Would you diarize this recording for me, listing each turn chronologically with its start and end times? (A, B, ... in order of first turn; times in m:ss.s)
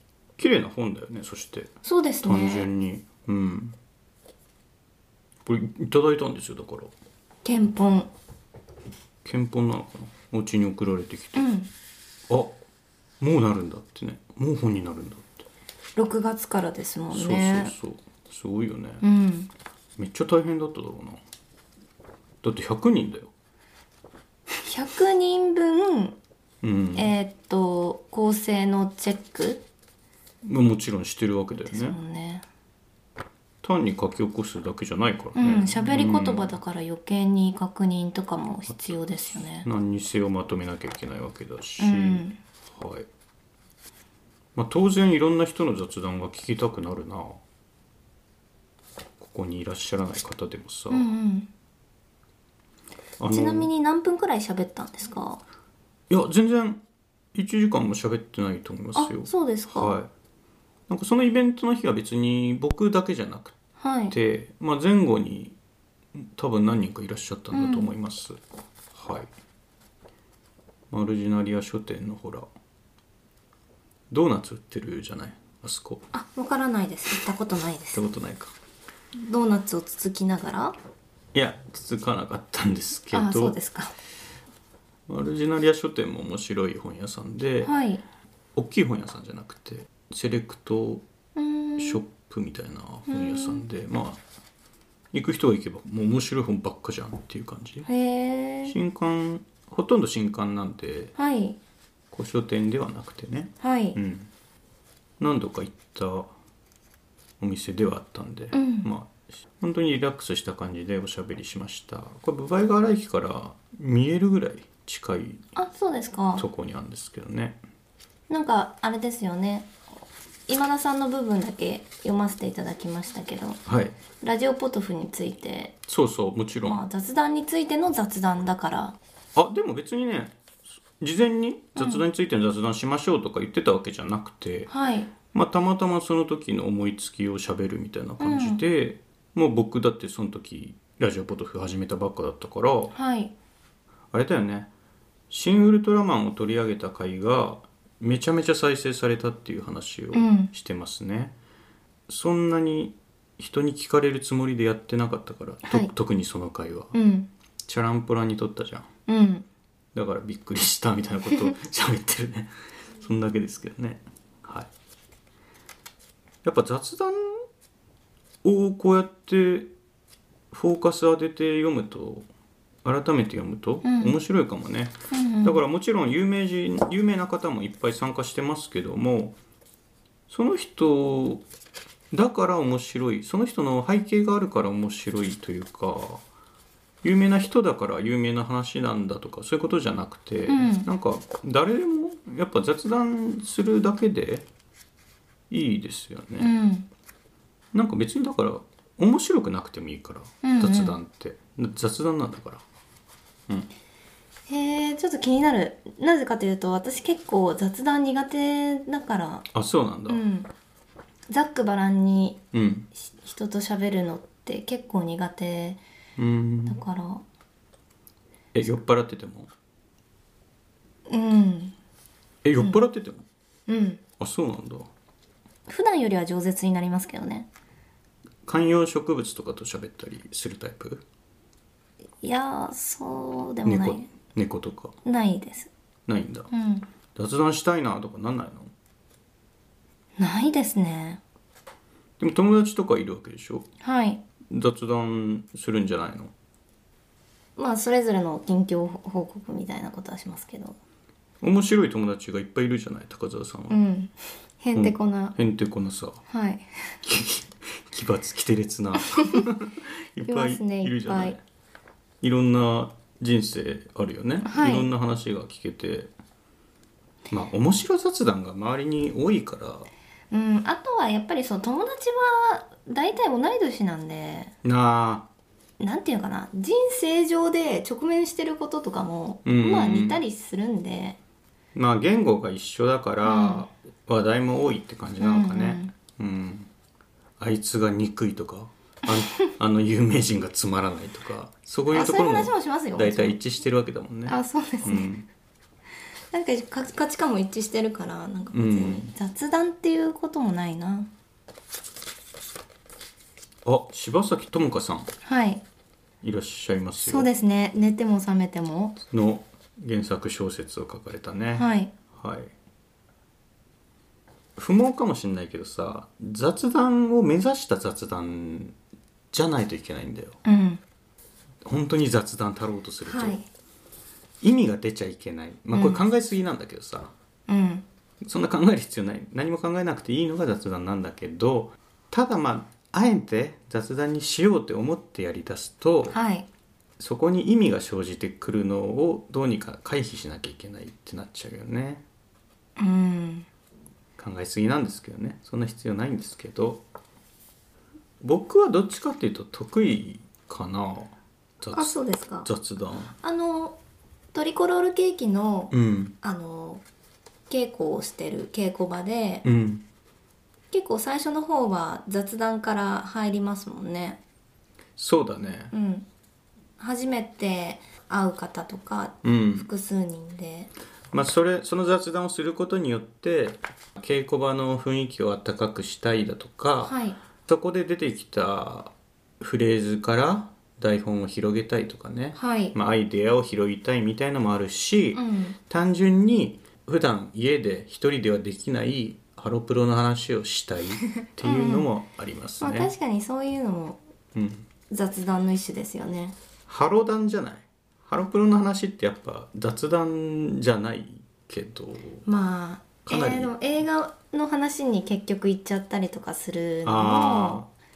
0:00.4-0:01.7 A
0:01.8-0:02.7 B
0:02.2-0:03.8 A
0:05.4-0:06.9 A
0:07.4-0:08.1 B
0:09.2-0:11.4 A
0:11.3-0:11.7 B
0:12.3-0:12.6 A
0:13.2-0:15.4 A
0:16.0-0:17.7 B
0:17.1-0:19.0 A
0:19.0-0:19.5 B
0:20.0-0:21.2 A
0:22.4-0:23.3 A
0:24.6-0:26.2 B
0:26.6-0:27.1 A
0:26.9-0:29.6 B
0:30.4-0:32.0 A
0:31.6-0:32.4 B
0:33.6-0:36.6 A
0:35.4-0:39.7 B
0:39.6-0:43.1 A
0:41.8-0:42.4 B
0:44.5-0:47.4 A
0:49.2-0:51.1 A
0:50.9-0:51.5 B
0:53.2-0:53.7 A
0:53.3-0:55.4 B
0:56.1-0:56.8 A
0:57.3-1:00.1 A
0:58.9-0:59.9 B
1:00.9-1:03.6 A
1:03.8-1:04.1 B
1:04.1-1:05.6 A
1:06.1-1:08.4 A
1:07.5-1:07.9 B
1:08.9-1:09.3 A
1:10.9-1:12.5 A
1:14.1-1:16.0 A
1:16.1-1:18.0 B
1:17.9-1:18.5 A
1:19.1-1:20.8 B
1:21.3-1:23.6 A
1:23.1-1:23.9 B
1:25.1-1:27.7 A
1:27.6-1:28.0 B
1:28.6-1:31.0 A
1:31.3-1:32.0 B
1:31.8-1:34.2 A
1:33.1-1:33.6 B
1:35.1-1:37.9 A
1:37.8-1:38.8 B
1:38.7-1:41.1 A
1:41.2-1:41.6 B
1:42.1-1:44.3 A
1:43.6-1:44.0 B
1:45.2-1:46.3 A
1:47.4-1:55.4 A
1:48.5-1:48.9 B
1:55.6-1:56.4 B
1:56.4-1:57.6 A
1:58.3-1:59.7 B
2:00.5-2:03.6 B
2:03.6-2:03.9 A
2:04.2-2:05.8 B
2:05.9-2:06.8 A
2:06.6-2:09.0 B
2:09.3-2:10.4 A
2:11.0-2:14.7 A
2:11.8-2:12.0 B
2:14.7-2:15.1 B
2:15.3-2:22.9 A
2:18.2-2:18.6 B
2:22.9-2:23.3 B
2:24.1-2:24.7 A
2:25.3-2:31.3 A
2:30.1-2:30.5 B
2:32.1-2:36.9 A
2:35.6-2:35.9 B
2:36.9-2:37.3 B
2:37.6-2:38.9 A
2:39.1-2:39.4 B
2:39.9-2:44.7 A
2:46.4-2:47.4 A
2:48.4-2:49.7 A
2:50.5-2:52.3 A
2:52.8-2:59.4 A
2:53.8-2:54.2 B
2:55.1-2:55.6 B
3:00.3-3:01.4 A
3:02.1-3:06.2 A
3:07.0-3:14.4 A
3:10.5-3:10.9 B
3:15.5-3:16.5 A
3:16.4-3:16.9 B
3:17.7-3:22.6 A
3:20.4-3:21.0 B
3:24.5-3:29.4 B
3:29.5-3:30.2 A
3:30.1-3:30.5 B
3:31.3-3:32.4 B
3:32.5-3:32.9 A
3:33.0-3:35.8 B
3:36.2-3:36.8 A
3:36.6-3:37.2 B
3:38.5-3:39.5 A
3:41.1-3:41.7 B
3:42.4-3:43.2 A
3:43.7-3:44.0 B
3:44.2-3:44.9 A
3:45.7-3:47.5 B
3:48.4-3:51.0 A
3:52.2-3:54.1 B
3:53.6-3:54.9 A
3:55.0-3:55.7 B
3:56.1-3:56.5 A
3:56.5-3:56.8 B
3:57.1-3:58.7 A
4:00.2-4:01.2 B
4:02.2-4:03.6 A
4:03.8-4:04.2 B
4:04.5-4:06.3 A
4:07.6-4:10.8 B
4:11.4-4:13.8 A
4:13.7-4:15.4 B
4:14.7-4:16.2 A
4:16.3-4:16.9 B
4:17.0-4:21.4 A
4:19.0-4:19.4 B
4:20.2-4:21.4 B
4:22.2-4:26.1 A
4:24.4-4:24.9 B
4:27.3-4:29.9 A
4:30.3-4:34.5 B
4:34.6-4:35.3 A
4:35.8-4:41.2 B
4:39.4-4:40.2 A
4:41.7-4:46.7 A
4:43.2-4:43.7 B
4:45.2-4:45.9 B
4:47.4-4:55.3 A
4:51.9-4:53.4 B
4:54.3-4:55.1 B
4:56.3-5:01.1 B
4:58.5-4:59.1 A
5:03.6-5:05.1 A
5:05.2-5:05.6 B
5:06.2-5:07.3 A
5:07.0-5:09.0 B
5:09.1-5:12.5 A
5:11.5-5:11.9 B
5:14.6-5:18.8 A
5:19.3-5:20.4 A
5:20.4-5:20.8 B
5:21.6-5:23.4 A
5:23.0-5:23.4 B
5:24.4-5:27.1 A
5:25.7-5:26.0 B
5:27.5-5:27.8 B
5:28.2-5:36.2 A
5:36.1-5:36.4 B
5:37.0-5:42.0 A
5:42.8-5:43.5 B
5:44.2-5:46.8 A
5:48.2-5:53.1 A
5:51.7-5:52.5 B
5:53.2-5:53.8 B
5:54.3-5:56.8 B
5:55.7-5:56.2 A
5:57.5-5:59.4 B
5:59.4-5:59.8 A
6:00.7-6:04.2 B
6:05.0-6:05.7 A
6:05.7-6:06.0 B
6:06.8-6:10.7 B
6:09.2-6:09.7 A
6:11.1-6:16.9 A
6:16.8-6:17.2 B
6:17.5-6:32.9 A
6:22.3-6:22.7 B
6:25.1-6:25.6 B
6:31.2-6:31.9 B
6:32.6-6:34.0 B
6:34.3-6:34.6 A
6:34.9-6:36.4 B
6:36.7-6:42.2 A
6:42.2-6:47.6 B
6:43.0-6:43.5 A
6:46.8-6:47.7 A